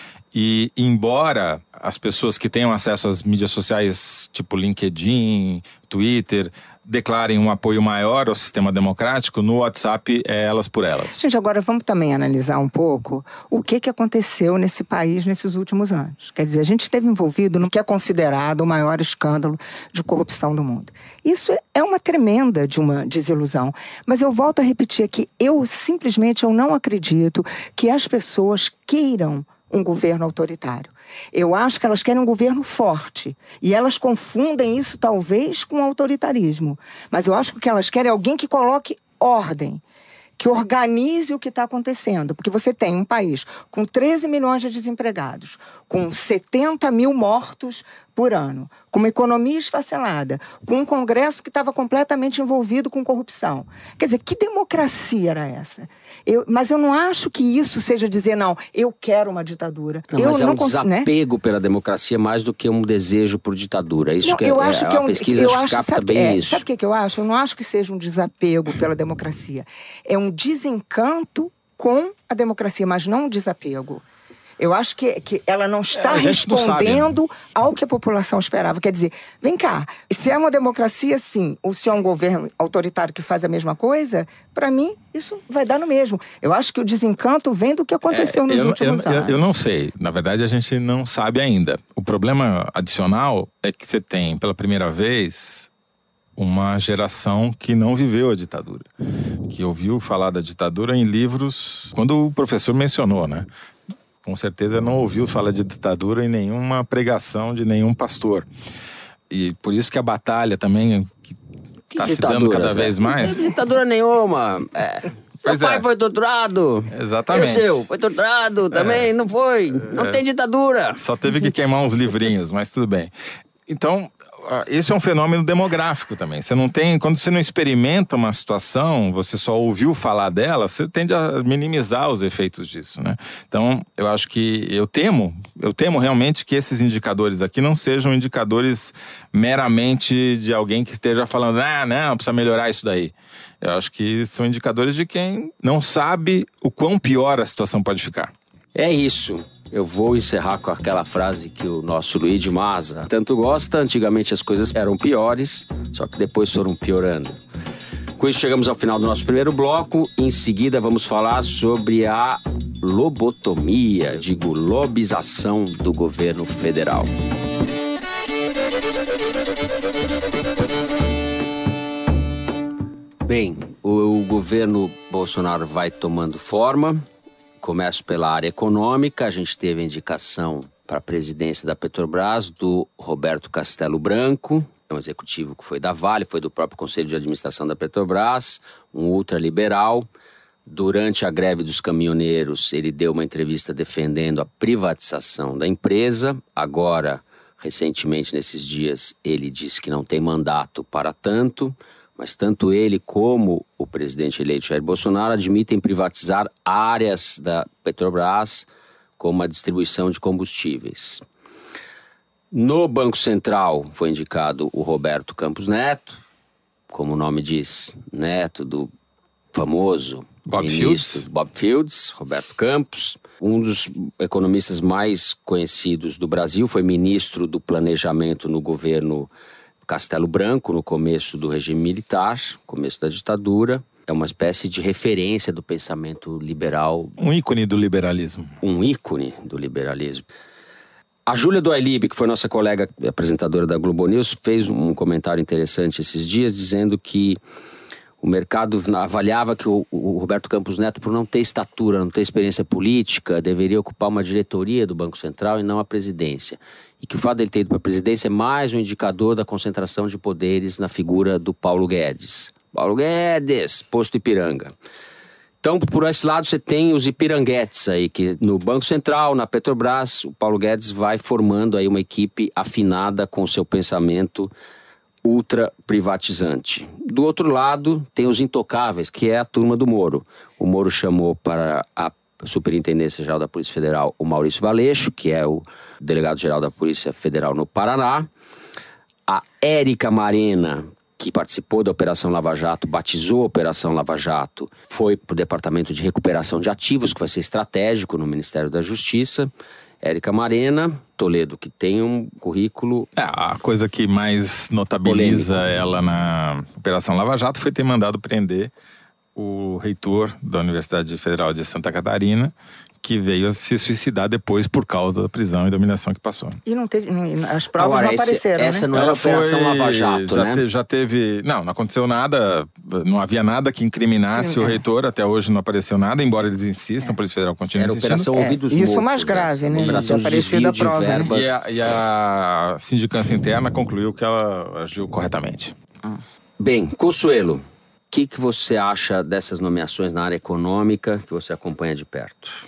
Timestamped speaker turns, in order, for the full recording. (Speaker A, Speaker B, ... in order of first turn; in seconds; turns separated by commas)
Speaker A: 0.3-11.3, Speaker B: 11.2-39.8, Speaker B: 40.4-61.1, Speaker C: 60.1-66.6, Speaker B: 64.2-74.0, Speaker B: 74.6-89.4, Speaker A: 75.9-77.2, Speaker A: 88.1-95.7, Speaker A: 96.4-98.9, Speaker A: 99.5-103.5, Speaker A: 104.2-108.5, Speaker A: 109.3-111.4, Speaker A: 111.9-113.5, Speaker C: 111.9-121.0, Speaker A: 115.4-115.8, Speaker A: 116.9-117.8, Speaker A: 118.7-119.1, Speaker A: 119.8-120.2, Speaker A: 121.0-123.1, Speaker A: 123.7-148.3, Speaker C: 148.8-157.4, Speaker C: 158.2-167.1, Speaker C: 173.3-177.0, Speaker C: 177.6-190.1, Speaker C: 190.7-208.7, Speaker C: 209.2-211.3, Speaker C: 212.5-216.2, Speaker C: 216.9-218.9, Speaker C: 219.5-229.3, Speaker A: 220.5-221.3, Speaker C: 229.9-237.2, Speaker A: 237.2-238.5, Speaker C: 238.6-240.3, Speaker C: 241.3-247.4, Speaker C: 248.2-264.7, Speaker C: 265.6-274.5, Speaker C: 275.2-288.3, Speaker C: 289.3-299.5, Speaker C: 300.0-303.1, Speaker A: 303.2-308.7, Speaker C: 305.0-305.6, Speaker A: 309.4-316.6, Speaker B: 316.7-318.9, Speaker C: 317.8-320.6, Speaker A: 318.9-328.3, Speaker B: 324.4-324.8, Speaker C: 327.8-331.5, Speaker B: 328.3-331.3, Speaker A: 331.3-335.8, Speaker C: 336.6-342.6